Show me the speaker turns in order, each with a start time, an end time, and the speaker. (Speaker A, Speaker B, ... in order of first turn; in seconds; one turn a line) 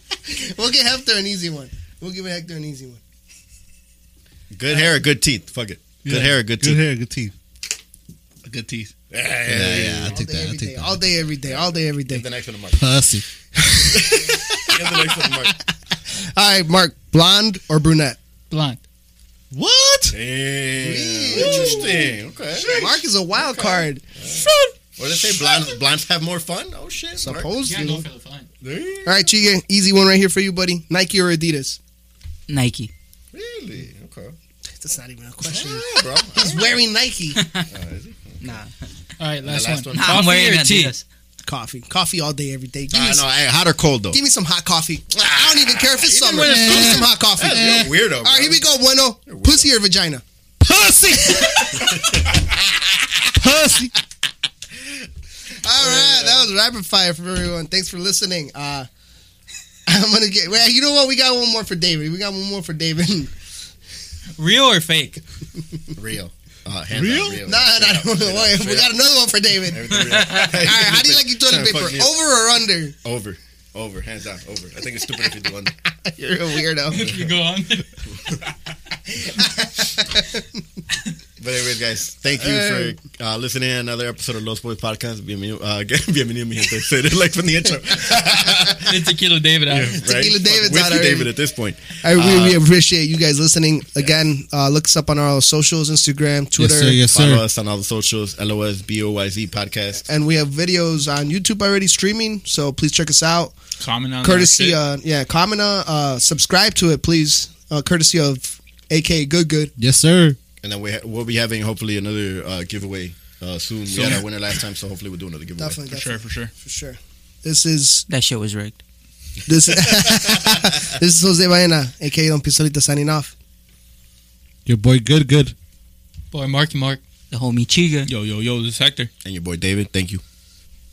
Speaker A: 0.3-3.0
Speaker B: 4.5-6.8
Speaker C: 6.0-7.3
Speaker D: 8.4-8.9
Speaker B: 9.1-10.2
Speaker C: 9.5-11.0
Speaker A: 10.1-12.2
Speaker B: 11.4-12.8
Speaker C: 12.8-13.2
Speaker A: 13.6-15.5
Speaker B: 13.9-15.6
Speaker A: 16.1-18.2
Speaker E: 18.5-18.8
Speaker C: 19.5-20.1
Speaker B: 20.1-27.5
Speaker A: 20.8-22.1
Speaker C: 21.4-21.8
Speaker A: 22.7-24.0
Speaker C: 24.4-24.7
Speaker A: 27.2-28.0
Speaker E: 27.6-28.5
Speaker B: 28.6-29.3
Speaker A: 29.0-31.8
Speaker F: 32.5-32.9
Speaker B: 33.3-34.4
Speaker A: 34.8-37.5
Speaker B: 35.4-36.8
Speaker B: 37.7-38.6
Speaker F: 38.4-38.9
Speaker E: 39.2-40.9
Speaker B: 39.4-40.3
Speaker F: 39.9-41.0
Speaker A: 41.5-43.2
Speaker B: 42.9-44.2
Speaker A: 44.1-50.2
Speaker B: 45.1-48.6
Speaker C: 46.4-47.9
Speaker B: 49.2-49.7
Speaker C: 50.6-52.0
Speaker A: 51.2-51.9
Speaker B: 51.7-53.2
Speaker C: 53.4-53.9
Speaker A: 55.6-58.9
Speaker B: 55.7-56.4
Speaker A: 59.9-63.3
Speaker E: 64.4-65.2
Speaker B: 66.0-68.9
Speaker C: 66.9-67.4
Speaker A: 67.5-73.0
Speaker B: 69.7-72.2
Speaker F: 70.1-70.4
Speaker B: 73.0-75.7
Speaker A: 76.0-77.1
Speaker E: 76.9-77.9
Speaker B: 77.0-77.3
Speaker A: 79.2-80.4
Speaker B: 81.4-89.0
Speaker A: 82.3-83.0
Speaker E: 88.8-90.0
Speaker B: 89.7-92.6
Speaker A: 90.0-91.3
Speaker A: 92.0-97.0
Speaker C: 96.6-97.4
Speaker B: 97.0-100.0
Speaker A: 100.0-103.6
Speaker D: 103.8-104.8
Speaker A: 104.2-109.7
Speaker C: 109.8-110.4
Speaker B: 110.6-115.8
Speaker D: 113.9-114.2
Speaker A: 115.6-118.0
Speaker D: 115.9-116.5
Speaker F: 118.1-118.8
Speaker A: 119.5-123.3
Speaker C: 124.7-125.5
Speaker E: 126.3-127.0
Speaker F: 127.3-128.1
Speaker D: 128.1-129.1
Speaker B: 129.2-130.2